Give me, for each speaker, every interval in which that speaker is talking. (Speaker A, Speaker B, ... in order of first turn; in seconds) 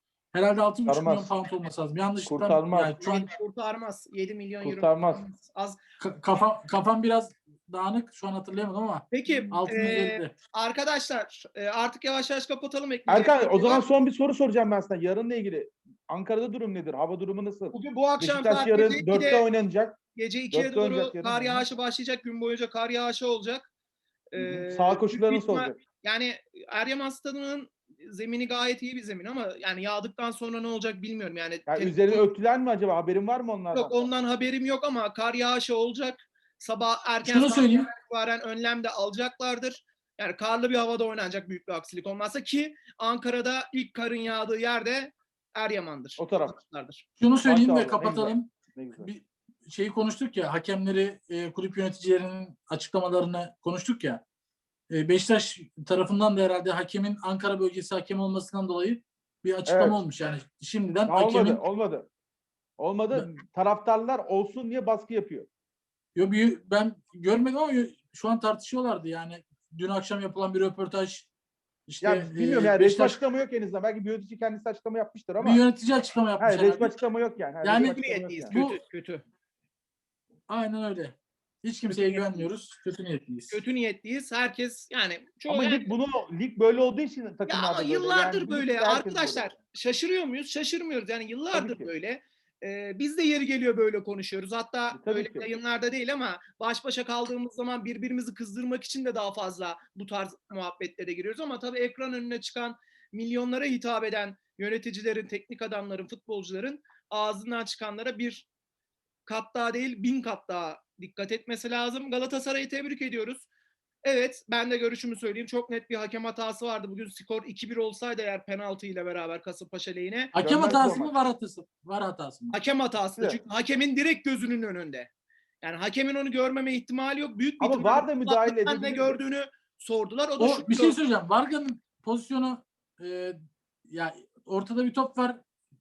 Speaker A: 0.3-3.3, 6.0-10.3, 37.2-37.9, 47.2-54.2, 54.9-61.6, 66.2-71.3, 71.9-73.2, 75.4-76.9, 77.6-78.8, 80.5-83.6, 120.3-122.6, 130.4-133.3, 133.9-135.4
Speaker B: 0.9-1.3, 2.2-3.0, 4.6-5.2, 13.1-20.0, 20.5-21.7, 24.4-25.8, 31.7-34.0, 46.2-46.6, 47.4-49.1, 59.7-60.0, 61.1-62.1, 62.8-65.5, 72.0-75.6, 76.4-78.5, 81.9-82.2, 85.5-89.5, 91.5-91.9, 95.0-95.5, 120.4-121.2, 127.6-129.2
Speaker C: 3.0-5.8, 9.1-13.8, 17.7-19.5, 20.1-23.7, 24.3-32.3, 33.7-47.0, 77.8-79.2, 83.5-85.9, 87.5-108.5, 109.3-113.5, 114.0-120.3, 122.5-125.1, 125.6-131.0